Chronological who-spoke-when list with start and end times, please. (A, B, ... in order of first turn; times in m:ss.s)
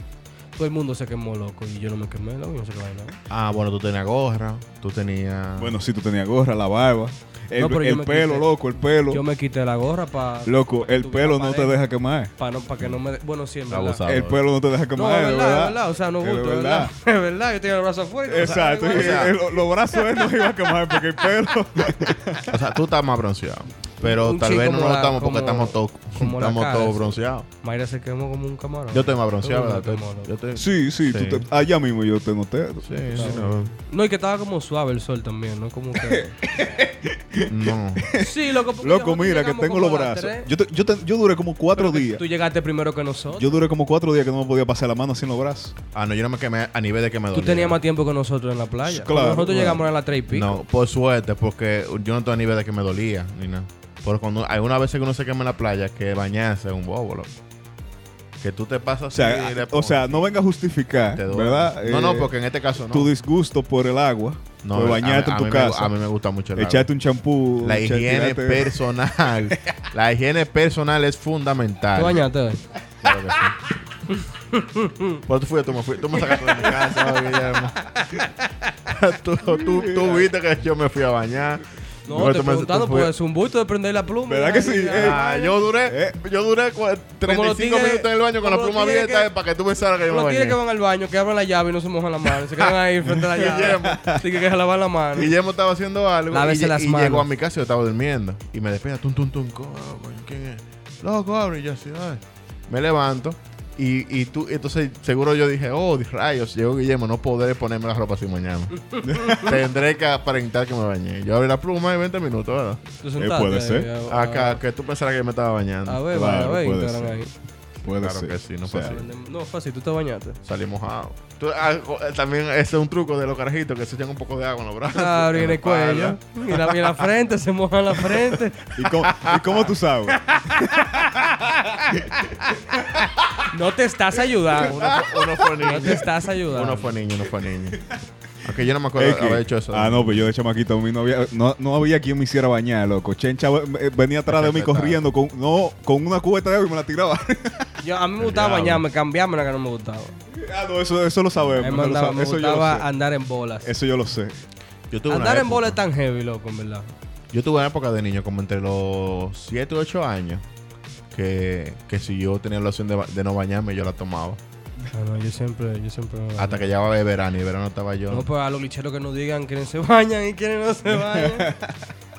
0:00.5-0:03.1 A
0:03.3-0:05.8 B
0:05.6-0:09.2 C
0:07.6-0:11.8 A
0:10.4-0:12.3 C
0:12.4-0:14.0 A
0:13.7-0:14.4 B
0:14.1-0:16.9 C
0:15.0-0:19.4 A
0:18.3-0:22.5 C
0:18.4-0:19.3 B
0:22.5-0:27.5 B
0:24.0-0:30.3 A
0:28.9-0:31.4 B
0:30.6-0:33.5 C
0:32.8-0:33.7 B
0:33.1-0:36.3 A
0:36.0-0:42.2 C
0:37.5-0:38.0 B
0:38.2-0:40.5 A
0:41.7-0:43.6 A
0:43.3-0:45.7 C
0:45.9-0:47.8 B
0:47.3-0:50.6 A
0:48.8-0:49.8 C
0:50.3-0:57.3 B
0:58.4-1:00.3 B
0:59.1-1:02.3 C
1:01.1-1:03.1 B
1:02.9-1:05.9 C
1:04.6-1:06.9 B
1:06.6-1:08.8 C
1:07.6-1:12.2 B
1:11.9-1:12.6 A
1:13.0-1:13.6 B
1:14.1-1:15.2 A
1:15.2-1:17.8 B
1:16.3-1:17.2 A
1:18.0-1:18.5 A
1:18.8-1:23.1 B
1:19.4-1:20.3 C
1:22.0-1:25.6 A
1:24.3-1:25.2 C
1:25.0-1:30.6 B
1:25.8-1:26.2 C
1:27.2-1:29.3 A
1:30.1-1:35.3 A
1:33.2-1:34.2 C
1:33.3-1:34.0 B
1:35.1-1:52.8 B
1:36.3-1:37.3 A
1:48.9-1:49.5 A
1:49.0-1:49.6 C
1:53.0-1:54.6 A
1:53.2-1:53.9 C
1:54.1-1:56.1 B
1:55.8-1:57.3 A
1:56.1-1:57.2 C
1:57.8-1:59.0 C
1:57.8-1:59.0 B
1:58.8-2:00.4 A
2:00.4-2:07.0 B
2:04.9-2:08.8 A
2:08.0-2:08.4 B
2:08.7-2:13.1 C
2:09.1-2:09.6 B
2:10.1-2:14.8 A
2:14.6-2:17.8 B
2:15.4-2:16.9 A
2:18.4-2:20.3 B
2:19.0-2:27.7 C
2:24.3-2:25.0 B
2:27.8-2:30.1 A
2:28.2-2:28.8 C
2:30.3-2:32.9 C
2:31.6-2:33.7 A
2:33.6-2:34.4 C
2:34.9-2:35.8 B
2:35.1-2:36.9 A
2:37.3-2:40.4 B
2:41.1-2:44.4 B
2:44.9-2:46.6 A
2:46.4-2:48.3 B
2:48.1-2:51.5 A
2:51.0-2:51.8 C